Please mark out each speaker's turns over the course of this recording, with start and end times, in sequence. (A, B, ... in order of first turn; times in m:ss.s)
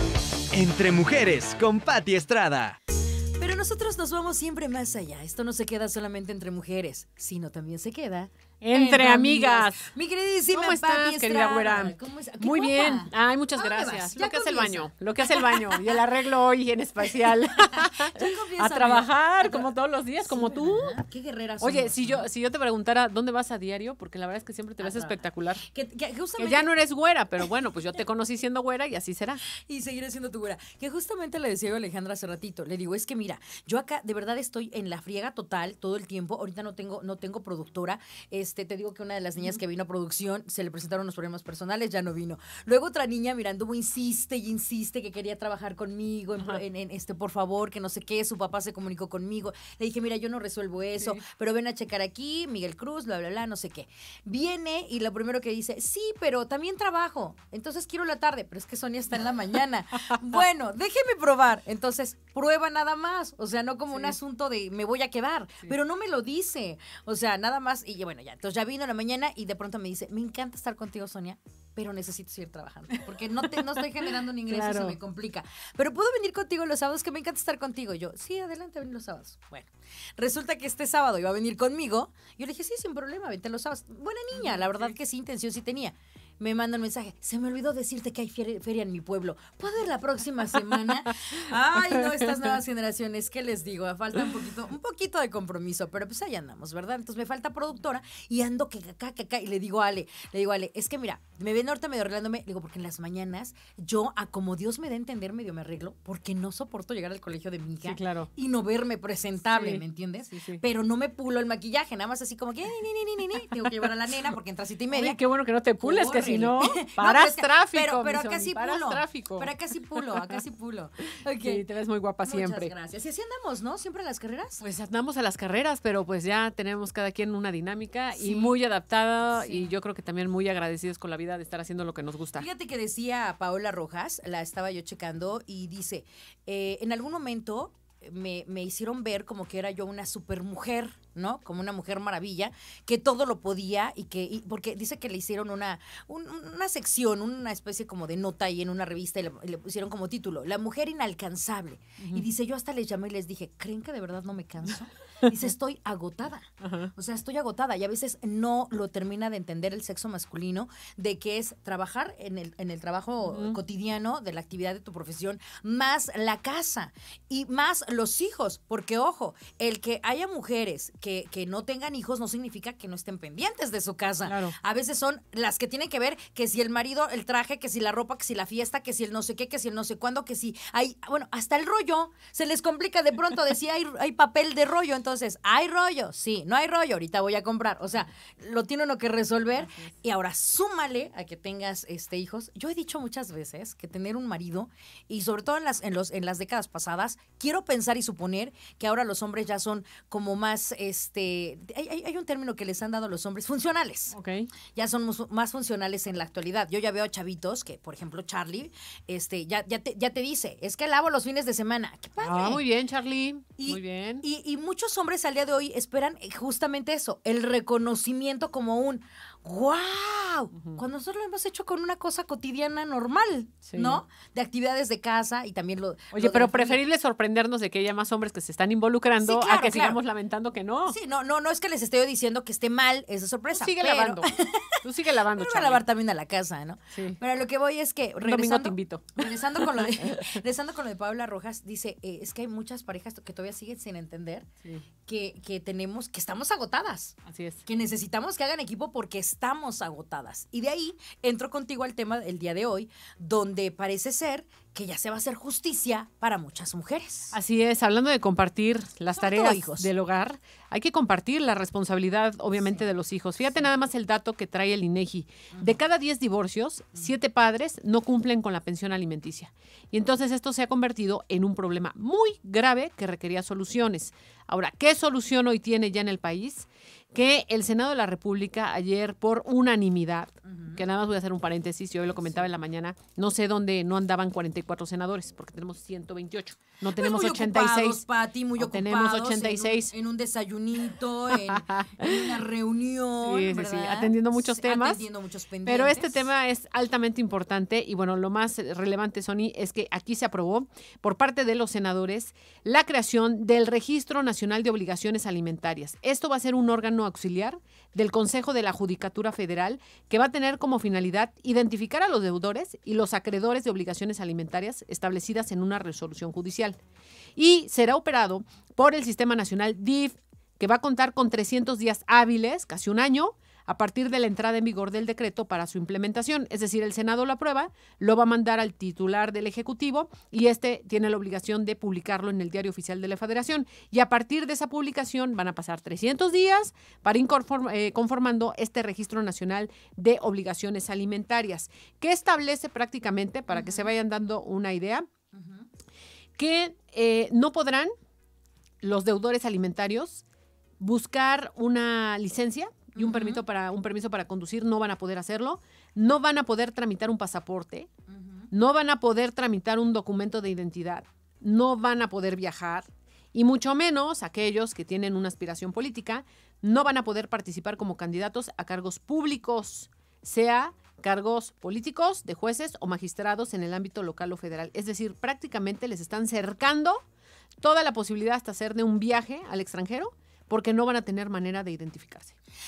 0:00.5-0:02.8 A
0:03.4-0:16.0 B
0:08.6-0:09.8 C
0:10.5-0:21.0 C
0:17.2-0:19.7 B
0:20.2-0:22.2 B
0:21.6-0:25.6 C
0:24.8-0:26.7 B
0:26.4-0:29.4 C
0:29.6-1:55.2 B
1:13.4-1:15.0 C
1:24.4-1:24.9 C
1:31.8-1:32.4 C
1:47.8-1:48.3 C
1:49.5-1:50.6 C
1:54.9-2:00.4 C
1:55.8-2:01.6 B
2:01.4-2:02.7 C
2:02.2-2:04.6 B
2:04.6-2:12.4 C
2:08.1-2:08.5 B
2:09.3-2:09.7 B
2:12.4-3:24.1 B
2:32.0-2:32.2 C
2:36.6-2:36.9 C
2:43.2-2:43.6 C
2:54.2-2:54.5 C
3:24.1-3:24.5 C
3:24.7-3:32.6 B
3:32.2-3:34.2 C
3:33.6-3:46.8 B
3:43.6-3:44.0 C
3:46.1-3:51.0 C
3:49.2-3:50.0 B
3:50.9-4:04.5 B
3:53.5-3:55.8 C
3:58.2-4:00.4 C
4:05.0-4:17.3 B
4:07.2-4:07.6 C
4:17.3-4:48.0 C
4:19.2-4:19.9 B
4:22.6-4:22.8 B
4:40.4-4:40.8 B
4:47.0-4:56.2 B
4:48.6-4:49.9 C
4:51.3-4:52.4 C
4:53.2-4:55.0 C
4:55.6-5:16.8 C
5:17.4-5:45.0 C
5:43.5-5:43.9 B
5:45.3-5:45.7 B
5:46.4-5:47.9 C
5:48.8-5:50.2 C
5:50.8-5:57.9 C
5:52.9-5:53.4 B
5:58.1-5:58.5 B
5:58.5-6:17.0 C
6:17.6-6:22.3 C